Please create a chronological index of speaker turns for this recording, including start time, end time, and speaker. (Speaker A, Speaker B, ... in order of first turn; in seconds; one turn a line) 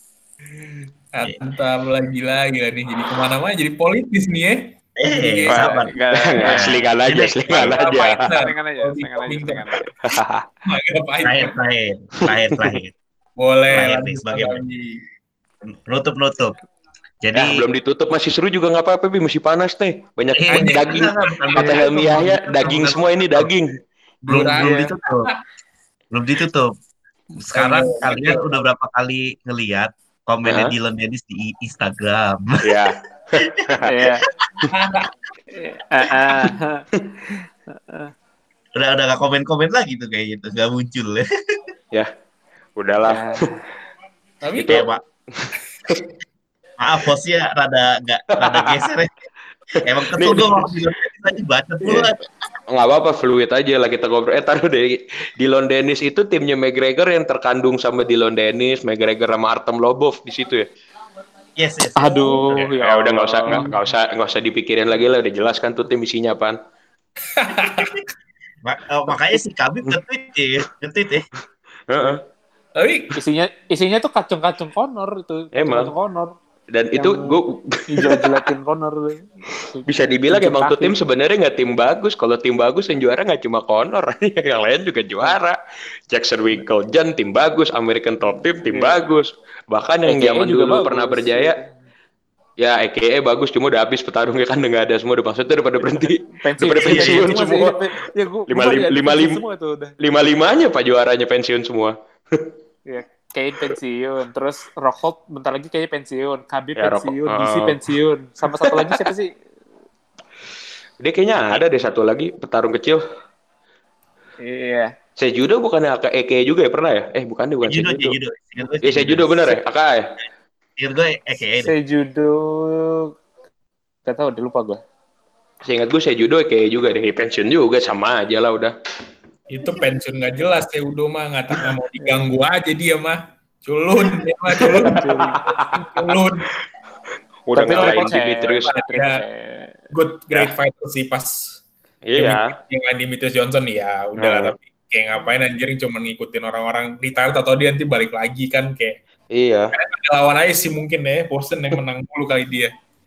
Speaker A: 0.6-5.8
Speaker B: 5.0-7.7
Speaker C: 5.5-6.9
Speaker D: 6.1-8.4
Speaker A: 7.5-9.7
Speaker C: 7.9-9.9
Speaker D: 10.0-10.5
Speaker A: 10.7-11.6
Speaker B: 11.2-12.9
Speaker D: 12.2-12.8
Speaker A: 13.4-15.0
Speaker B: 13.7-14.6
Speaker B: 15.7-16.6
Speaker B: 17.2-17.6
Speaker D: 17.3-23.8
Speaker B: 20.4-23.5
Speaker A: 20.5-22.1
Speaker B: 24.3-25.3
Speaker A: 24.3-25.4
Speaker B: 26.1-26.7
Speaker B: 27.4-32.8
Speaker A: 27.5-28.4
Speaker D: 30.4-30.8
Speaker D: 32.6-34.0
Speaker B: 33.4-33.8
Speaker C: 33.8-34.3
Speaker B: 34.5-34.7
Speaker A: 34.7-35.1
Speaker C: 35.5-36.9
Speaker C: 37.7-38.1
Speaker B: 38.8-41.3
Speaker D: 42.8-43.5
Speaker C: 43.1-43.6
Speaker A: 44.4-44.8
Speaker D: 44.6-46.1
Speaker B: 44.6-45.0
Speaker B: 46.8-49.1
Speaker D: 48.4-48.9
Speaker D: 49.8-50.7
Speaker B: 49.9-52.2
Speaker D: 52.7-60.7
Speaker B: 61.6-62.6
Speaker C: 62.0-63.7
Speaker D: 62.8-66.6
Speaker A: 67.3-68.0
Speaker B: 68.6-71.3
Speaker D: 71.9-72.2
Speaker A: 72.8-73.2
Speaker C: 73.2-76.4
Speaker D: 75.5-75.9
Speaker D: 76.7-78.4
Speaker C: 77.0-77.4
Speaker C: 77.9-81.0
Speaker D: 79.9-85.6
Speaker D: 86.1-91.6
Speaker C: 88.7-89.0
Speaker C: 90.1-91.7
Speaker D: 92.6-97.8
Speaker C: 96.4-99.9
Speaker D: 98.5-99.4
Speaker D: 100.0-102.5
Speaker C: 102.9-109.3
Speaker D: 106.8-107.8
Speaker D: 108.6-109.1
Speaker D: 111.0-113.0
Speaker C: 114.4-114.9
Speaker D: 115.2-118.2
Speaker B: 117.6-119.3
Speaker D: 118.8-120.0
Speaker B: 120.8-121.7
Speaker C: 121.6-123.1
Speaker C: 124.1-124.8
Speaker D: 125.6-128.7
Speaker A: 129.5-136.5
Speaker D: 134.6-136.2
Speaker C: 134.8-135.4
Speaker D: 137.5-138.7
Speaker C: 137.5-139.7
Speaker A: 137.7-139.2
Speaker A: 139.9-141.6
Speaker D: 142.1-142.6
Speaker A: 142.2-149.0
Speaker D: 144.2-144.6
Speaker D: 149.3-149.7
Speaker A: 149.8-152.7